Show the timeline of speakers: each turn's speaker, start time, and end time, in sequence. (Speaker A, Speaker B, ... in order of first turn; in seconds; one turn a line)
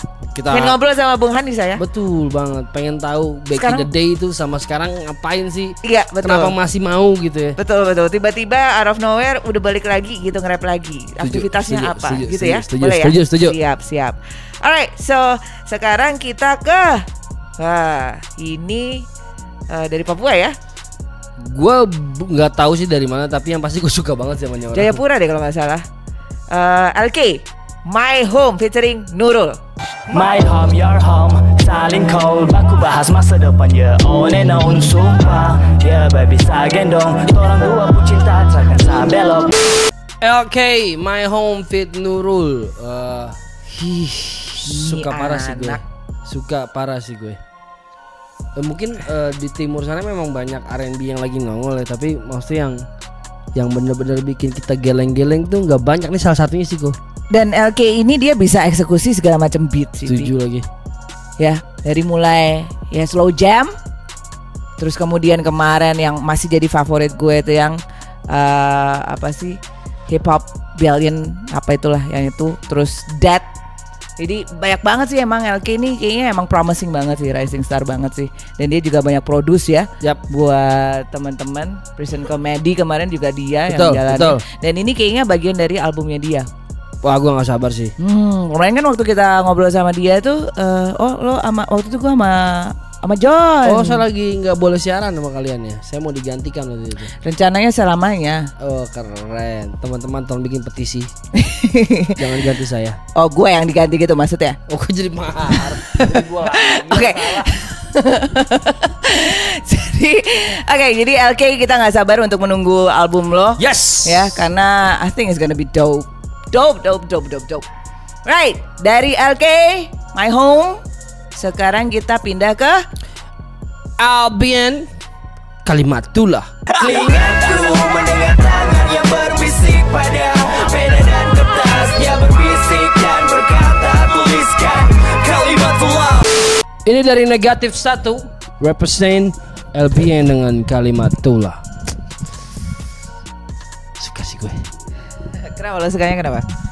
Speaker A: 0.3-0.8
Speaker B: 0.5-1.8
Speaker A: 1.8-7.6
Speaker B: 3.5-3.9
Speaker B: 5.8-6.5
Speaker B: 7.6-17.0
Speaker A: 11.2-13.6
Speaker B: 17.6-19.1
Speaker B: 19.7-20.5
Speaker A: 21.4-25.0
Speaker B: 24.7-25.8
Speaker B: 26.5-29.6
Speaker C: 30.1-39.8
Speaker A: 40.2-43.8
Speaker B: 43.8-45.8
Speaker A: 44.5-47.4
Speaker A: 48.5-52.8
Speaker A: 53.5-57.0
Speaker B: 57.3-60.3
Speaker A: 60.0-60.6
Speaker B: 61.4-63.7
Speaker B: 64.8-67.8
Speaker B: 68.3-69.6
Speaker B: 70.1-73.5
Speaker B: 74.2-86.5
Speaker A: 83.7-84.4
Speaker A: 87.0-87.9
Speaker B: 88.0-94.0
Speaker A: 93.6-97.1
Speaker B: 97.2-98.5
Speaker A: 98.6-101.1
Speaker B: 101.3-102.2
Speaker A: 102.2-103.0
Speaker B: 103.2-104.6
Speaker A: 104.7-107.6
Speaker B: 105.7-117.6
Speaker A: 113.6-114.5
Speaker B: 118.2-120.8
Speaker B: 121.3-122.8
Speaker A: 124.0-124.9
Speaker A: 125.6-127.0
Speaker C: 126.8-136.3
Speaker A: 136.8-141.6
Speaker A: 144.0-144.6
Speaker B: 145.3-146.4